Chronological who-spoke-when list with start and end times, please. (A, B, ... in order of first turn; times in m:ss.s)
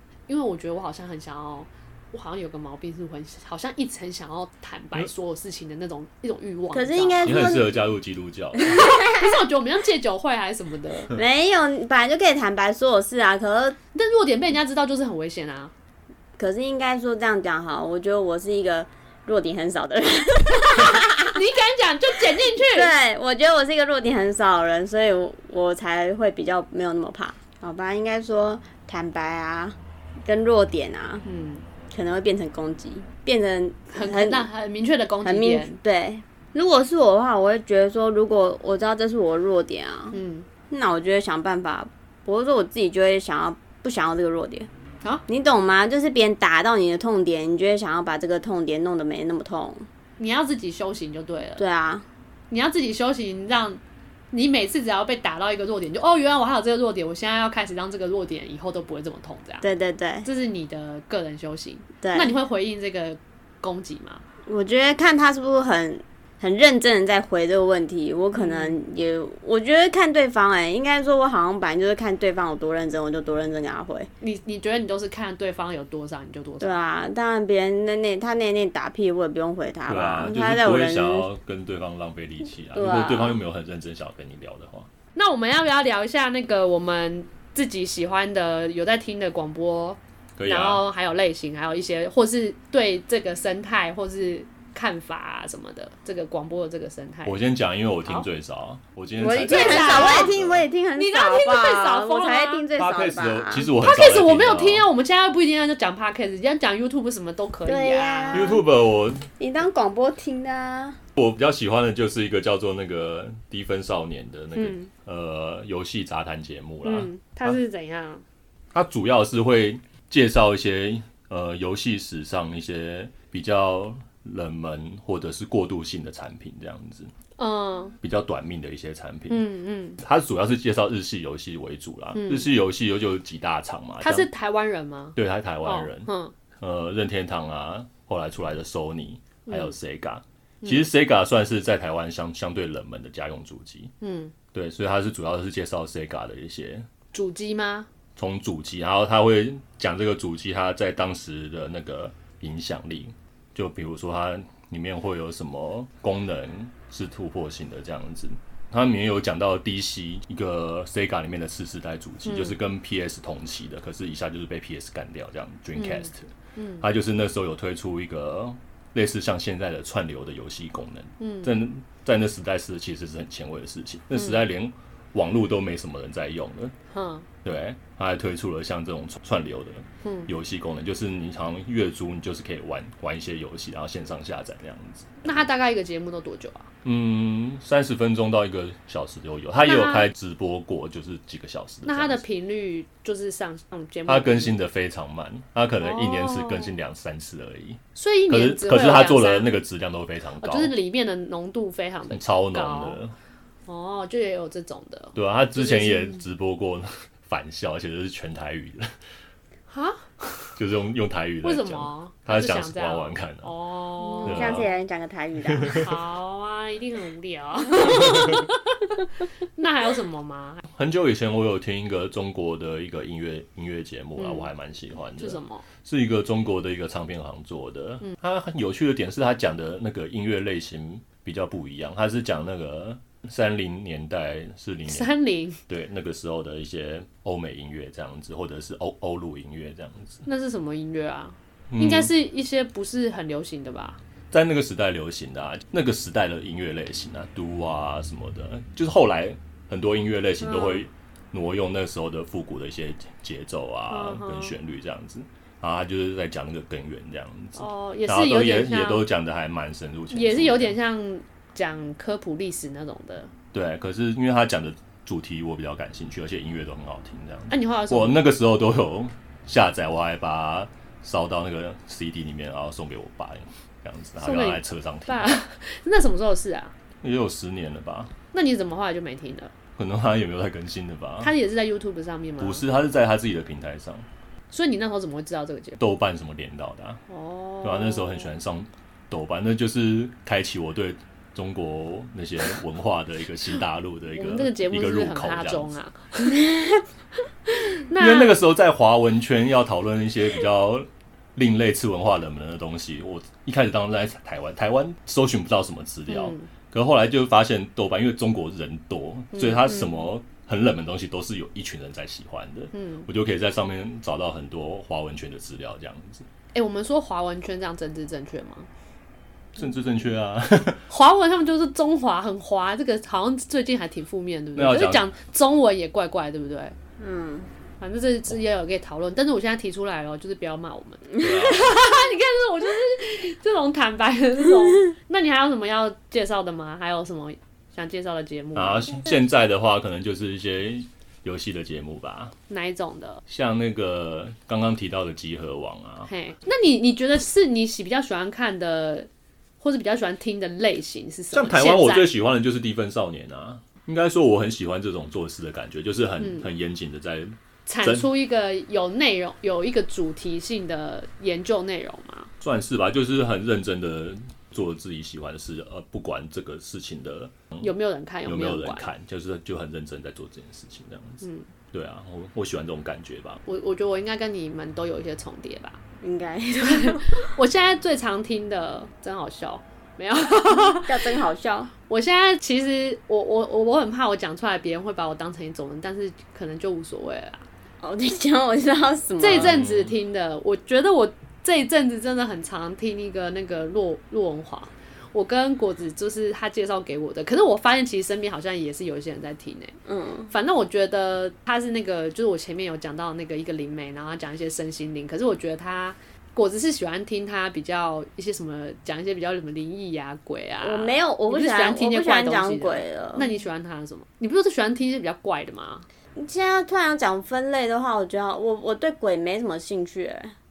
0:00.3-0:07.5 A
0:06.7-0:07.8 B
0:07.2-0:08.8 C
0:08.6-0:09.3 B
0:08.7-0:11.1 A
0:11.1-0:13.8 B
0:13.9-0:15.7 A
0:16.4-0:21.4 B
0:20.8-0:22.9 A
0:22.6-0:31.2 B
0:31.2-0:31.6 A
0:31.9-0:34.4 B
0:33.9-0:35.8 A
0:35.2-0:40.2 B
0:40.1-0:40.5 A
0:40.7-0:44.7 B
0:45.3-0:49.9 B
0:50.2-0:51.6 A
0:51.6-0:52.1 B
0:52.5-0:53.8 A
0:54.3-0:59.6 A
0:59.6-1:00.3 B
1:00.2-1:04.2 A
1:02.0-1:02.3 B
1:04.4-1:14.1 B
1:08.3-1:08.8 A
1:14.2-1:16.8 A
1:16.6-1:21.3 B
1:19.9-1:24.9 C
1:22.7-1:23.4 B
1:25.1-1:37.4 A
1:30.4-1:30.8 C
1:37.2-1:40.6 C
1:39.2-1:43.7 B
1:39.4-1:40.3 A
1:40.9-1:42.6 A
1:42.8-1:44.9 C
1:43.8-1:48.6 A
1:47.6-1:48.6 B
1:48.3-1:49.3 C
1:49.4-1:51.0 B
1:51.2-1:57.6 C
1:54.5-1:54.9 A
1:56.8-1:58.2 A
1:58.7-2:07.1 C
2:07.4-2:07.9 A
2:08.0-2:09.4 C
2:09.3-2:10.0 A
2:10.0-2:14.3 C
2:12.1-2:12.5 A
2:14.0-2:16.3 A
2:15.2-2:23.9 C
2:19.5-2:19.7 A
2:24.0-2:24.3 A
2:24.5-2:26.9 C
2:27.1-2:27.9 A
2:28.2-2:56.7 C
2:42.2-2:42.6 A
2:45.8-2:46.8 A
2:51.2-2:51.5 A
2:54.1-2:54.4 A
2:56.9-2:57.2 A
2:57.4-3:05.4 C
3:00.0-3:00.3 A
3:05.2-3:06.7 A
3:06.8-3:12.2 C
3:09.6-3:10.1 A
3:11.8-3:14.6 A
3:14.1-3:20.7 C
3:15.8-3:16.7 A
3:18.0-3:19.5 A
3:20.4-3:23.0 A
3:22.1-3:23.2 C
3:23.7-3:26.2 A
3:25.1-3:28.9 C
3:29.7-3:30.2 A
3:30.6-3:33.5 C
3:31.4-3:34.6 A
3:34.1-3:35.9 B
3:34.2-3:34.7 C
3:35.4-3:35.9 C
3:35.7-3:40.6 A
3:40.7-3:55.1 C
3:44.2-3:44.5 A
3:45.2-3:45.6 A
3:54.9-3:55.6 A
3:55.7-4:00.2 C
4:00.2-4:04.0 A
4:01.7-4:02.1 C
4:04.3-4:20.8 C
4:10.4-4:10.8 A
4:13.9-4:14.5 A
4:17.5-4:19.0 A
4:20.1-4:23.3 A
4:23.5-4:35.4 C
4:27.5-4:28.2 A
4:34.2-4:36.7 A
4:37.0-4:38.1 C
4:38.3-4:39.5 A
4:39.8-4:41.3 C
4:41.2-4:42.6 A
4:42.4-4:44.0 C
4:44.5-4:45.8 A
4:45.8-4:47.0 C
4:47.1-4:48.3 A
4:47.6-4:55.7 C
4:54.2-4:56.4 A
4:57.5-4:58.3 A
4:57.9-5:16.2 C
5:06.1-5:06.5 A
5:09.3-5:10.0 A
5:12.7-5:13.0 A
5:16.5-5:18.7 A
5:19.6-5:20.8 C
5:20.9-5:26.8 A
5:24.6-5:25.0 C
5:27.0-5:27.5 B
5:27.8-5:39.1 A
5:31.2-5:31.8 C
5:38.5-5:42.3 C
5:42.5-5:43.2 A
5:43.3-5:46.1 C
5:46.1-5:49.1 A
5:49.6-5:52.1 A
5:51.3-5:58.1 C
5:56.2-5:56.5 A
5:57.6-6:02.3 A
6:02.4-6:07.7 C
6:07.6-6:08.9 A
6:08.2-6:13.4 C
6:11.2-6:11.5 A
6:13.4-6:15.8 A
6:16.0-6:17.3 B
6:16.6-6:21.1 A
6:20.5-6:21.7 B
6:21.9-6:27.5 A
6:27.8-6:29.6 B
6:29.2-6:39.7 A
6:29.3-6:29.9 C
6:39.8-6:40.3 B
6:40.3-6:55.8 A
6:50.6-6:53.3 B
6:56.2-7:00.3 B